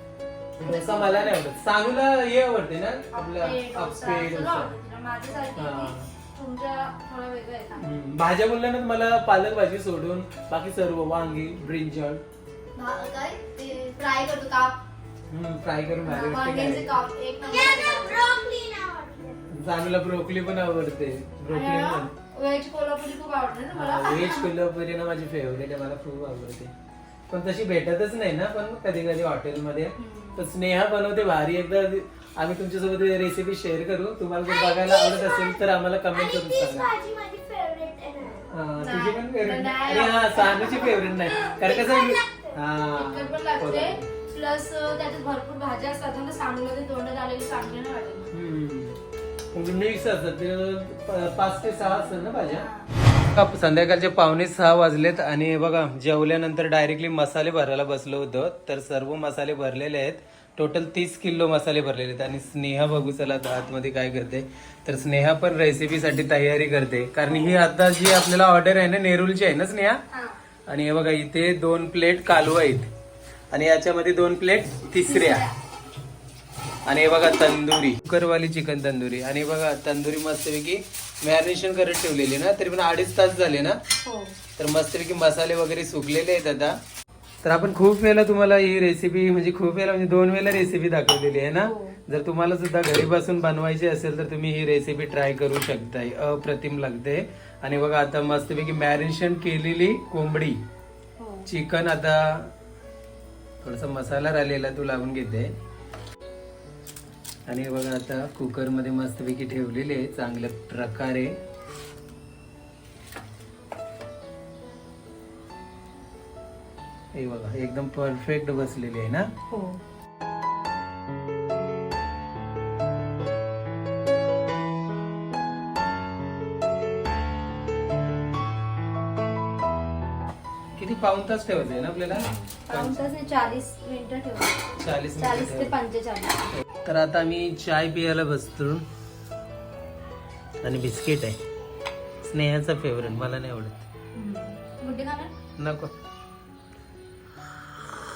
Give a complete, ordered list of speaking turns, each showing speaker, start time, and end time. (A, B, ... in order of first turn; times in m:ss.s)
0:00.6-0:04.7 A
0:00.6-0:01.4 B
0:03.1-0:07.9 B
0:05.6-0:06.1 A
0:07.8-0:12.2 A
0:12.7-0:14.8 B
0:15.3-0:16.9 A
0:16.0-0:18.2 B
0:17.4-0:19.5 C
0:19.5-0:22.1 A
0:21.5-0:24.5 B
0:23.7-0:26.7 A
0:27.3-0:36.9 A
0:30.0-0:30.5 B
0:34.5-0:38.5 C
0:38.5-0:44.0 A
0:38.8-0:41.2 B
0:40.9-0:42.6 C
0:42.9-0:48.3 B
0:48.3-0:49.0 A
0:49.5-0:52.7 A
0:52.2-0:52.9 B
0:53.3-1:10.0 A
1:10.1-1:10.4 B
1:10.7-1:12.9 A
1:13.5-1:15.5 A
1:15.0-1:15.5 B
1:16.9-1:23.8 A
1:24.0-1:24.4 B
1:24.6-1:26.8 A
1:27.4-1:40.6 A
1:31.6-1:32.0 B
1:41.2-1:41.5 B
1:41.5-1:42.5 A
1:43.6-1:45.5 A
1:47.5-1:51.4 A
1:57.1-1:59.3 A
1:59.5-1:59.8 B
2:10.8-2:13.0 A
2:12.1-2:14.6 B
2:14.8-2:15.8 A
2:15.2-2:16.5 B
2:16.6-2:18.9 A
2:20.6-2:21.4 A
2:22.2-2:23.9 A
2:24.1-2:25.3 B
2:25.6-2:25.9 A